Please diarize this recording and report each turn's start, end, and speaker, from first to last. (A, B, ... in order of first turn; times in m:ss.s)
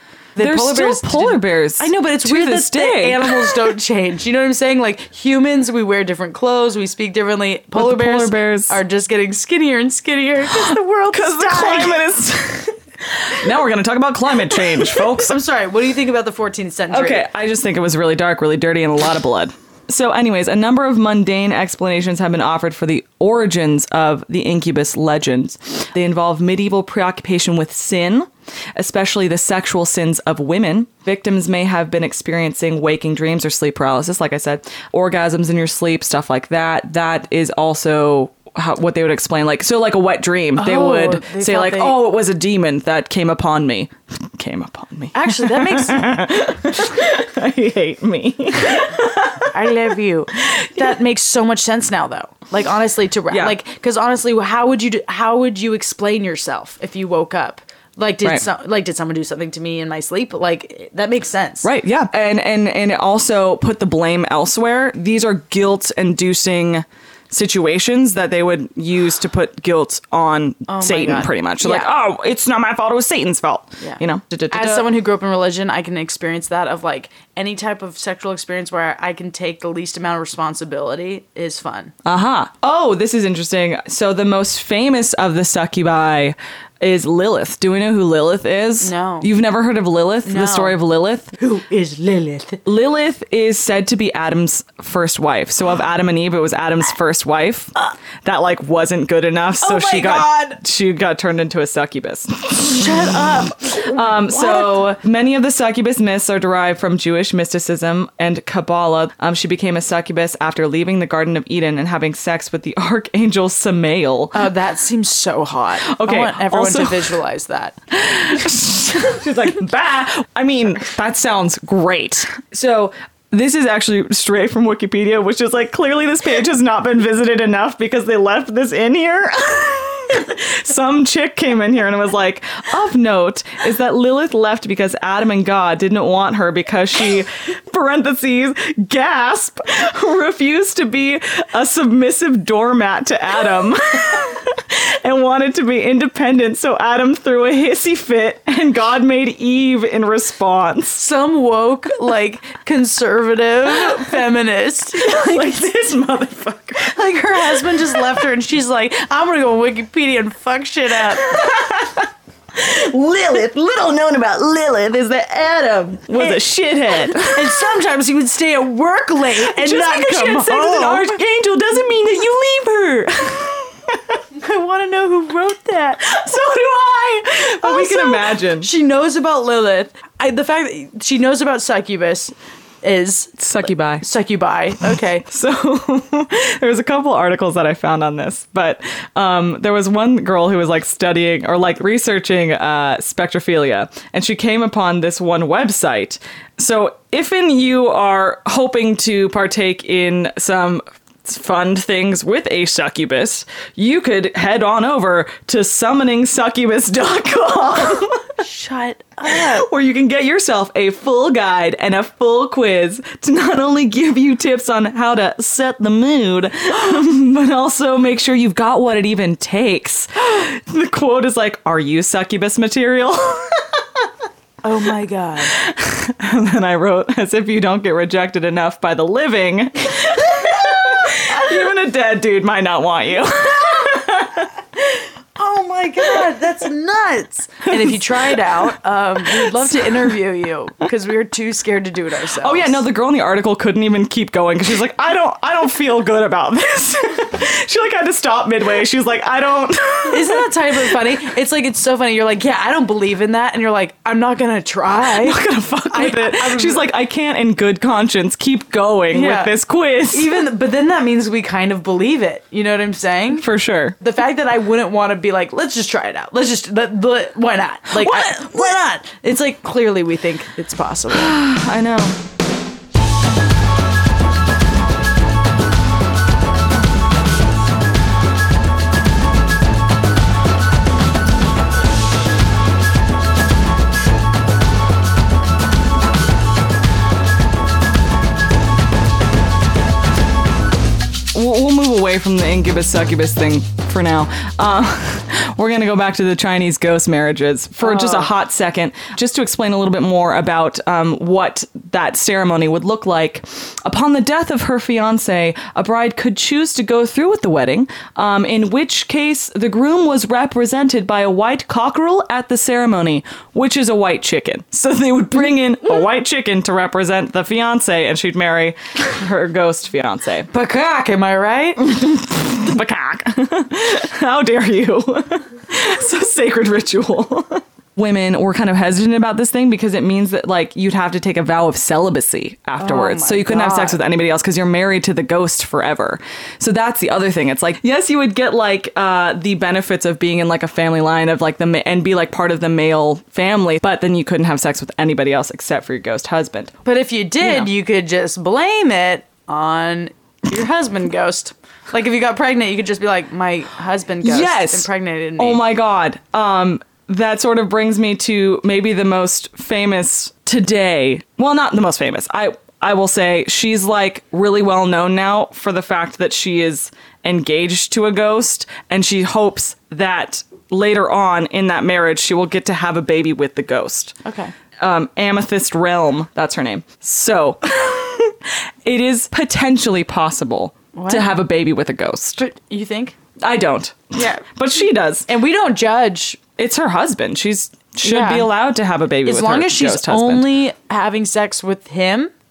0:00.4-0:12.0 A
0:00.4-0:03.7 B
0:07.8-0:08.8 B
0:10.5-0:15.4 B
0:14.6-0:17.3 A
0:16.9-0:49.7 B
0:40.6-0:42.0 A
0:45.1-0:46.2 A
0:49.5-1:01.7 A
0:50.4-0:50.9 B
0:53.3-0:53.6 B
1:01.6-1:14.9 B
1:10.7-1:11.9 A
1:13.8-1:21.9 A
1:22.0-1:31.4 B
1:28.8-1:29.3 A
1:30.2-1:30.8 A
1:31.4-1:32.6 A
1:32.6-1:54.4 B
1:39.6-1:40.6 A
1:42.8-1:44.9 A
1:54.3-1:57.8 A
1:55.9-1:57.2 B
1:57.9-2:31.1 B
2:30.9-2:35.7 A
2:33.8-2:34.2 B
2:34.9-2:38.2 B
2:36.9-2:41.4 A
2:41.1-2:47.8 B
2:46.1-2:51.1 A
2:49.4-2:54.2 B
2:54.4-2:56.2 A
2:56.0-2:58.7 B
2:57.6-3:03.4 A
3:03.4-3:04.0 B
3:04.0-3:05.3 A
3:05.3-3:28.4 B
3:28.4-3:29.7 A
3:29.2-3:44.1 B
3:44.6-3:45.6 A
3:45.5-3:54.8 B
3:55.4-4:02.8 A
3:56.0-3:56.3 B
3:57.7-3:58.7 B
3:59.2-4:00.1 B
4:02.3-4:11.0 B
4:10.1-4:16.9 A
4:15.1-4:20.4 B
4:19.1-4:19.6 A
4:20.1-4:23.4 A
4:23.3-4:24.0 B
4:24.0-4:31.4 A
4:27.9-4:28.8 B
4:31.1-4:32.2 B
4:51.3-5:20.5 B
4:57.8-4:58.3 A
5:20.5-5:22.1 A
5:21.9-5:46.7 B
5:32.8-5:34.0 A
5:46.8-5:55.6 A
5:47.4-5:47.7 B
5:54.2-6:14.2 B
6:14.2-6:14.5 A
6:14.8-6:22.4 B
6:20.9-6:21.4 A
6:22.4-6:23.2 A
6:23.4-6:25.3 B
6:24.1-6:24.4 A
6:25.3-6:26.4 A
6:26.6-6:30.6 B
6:28.0-6:28.5 A
6:29.2-6:32.3 A